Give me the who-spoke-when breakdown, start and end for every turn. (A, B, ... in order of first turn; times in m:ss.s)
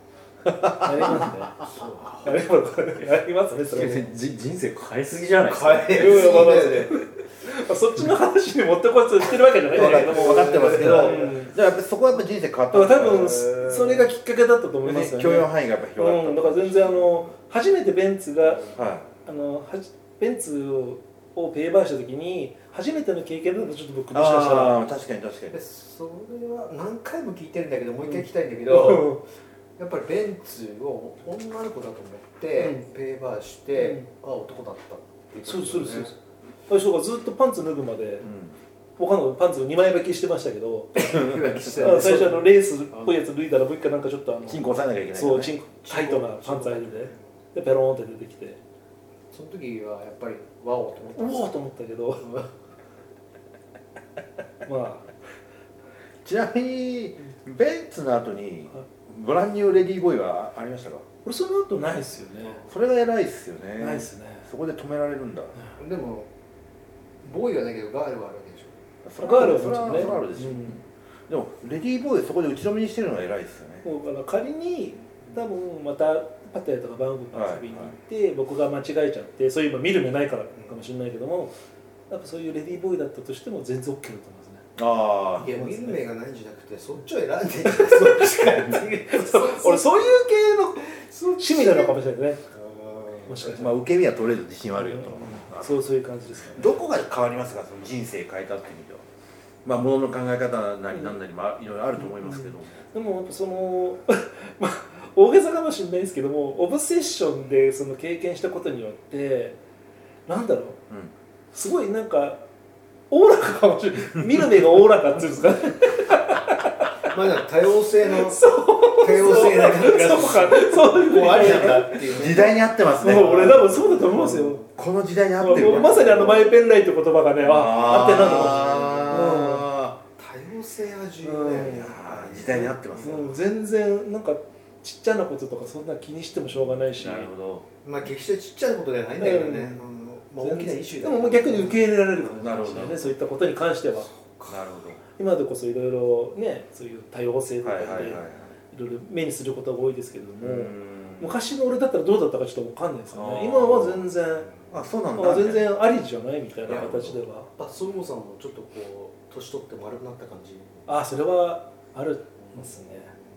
0:00.6-0:01.3 A
0:00.7-0:01.6 B
0:01.6-0:02.3 C
0:02.2-0:04.2 B
0:03.7-0:06.4 D
0:05.4-0:07.0 C
0:05.9-0:11.5 B
0:09.7-0:11.4 C
0:09.7-0:13.6 A
0:12.7-0:18.7 B
0:13.1-0:14.1 C
0:14.8-0:17.0 A
0:18.7-0:19.1 A
0:19.2-0:24.9 B
0:24.1-0:25.6 A
0:25.5-0:29.2 C
0:28.0-0:29.2 B
0:29.8-0:36.1 C
0:32.6-0:32.9 B
0:33.8-0:34.0 B
0:35.4-0:36.1 B
0:36.7-0:38.3 B
0:38.2-0:38.5 A
0:39.0-0:48.6 B
0:41.0-0:43.1 C
0:41.2-0:41.7 A
0:44.5-0:45.6 A
0:45.9-0:47.2 C
0:49.3-0:51.5 C
0:51.1-0:52.3 B
0:54.6-0:55.1 B
0:56.2-1:01.0 A
1:01.2-1:02.6 B
1:02.6-1:05.5 A
1:03.8-1:04.5 B
1:05.8-1:06.3 C
1:07.2-1:08.8 C
1:09.0-1:13.8 A
1:09.2-1:10.8 B
1:13.8-1:21.5 B
1:17.3-1:17.9 A
1:22.1-1:24.6 B
1:24.8-1:25.5 A
1:25.4-1:30.1 C
1:25.5-1:26.0 B
1:27.7-1:32.4 B
1:30.9-1:32.0 C
1:32.5-1:33.5 C
1:33.3-1:33.8 B
1:33.5-1:35.7 A
1:34.8-1:36.8 B
1:36.5-1:39.0 A
1:39.6-1:42.8 A
1:42.0-1:49.6 B
1:50.3-1:50.8 B
1:51.5-1:52.4 B
1:53.1-1:56.9 B
1:57.1-1:58.4 C
1:58.1-2:02.3 B
1:59.0-2:02.6 C
2:01.3-2:06.3 A
2:03.0-2:04.6 B
2:03.3-2:04.6 C
2:05.4-2:09.7 B
2:05.4-2:06.6 C
2:07.4-2:10.0 A
2:08.1-2:09.2 C
2:10.2-2:13.3 C
2:11.2-2:11.9 B
2:11.7-2:13.3 A
2:13.0-2:17.3 B
2:17.0-2:17.6 A
2:17.8-2:22.4 C
2:19.2-2:19.8 B
2:20.4-2:24.1 B
2:22.3-2:23.1 A
2:24.1-2:24.5 C
2:24.5-2:25.0 A
2:25.2-2:34.5 B
2:27.6-2:28.5 A
2:30.4-2:31.4 A
2:33.1-2:34.0 A
2:34.7-2:35.7 A
2:35.1-2:37.5 B
2:36.7-2:37.2 A
2:37.5-2:40.8 C
2:40.9-2:43.1 B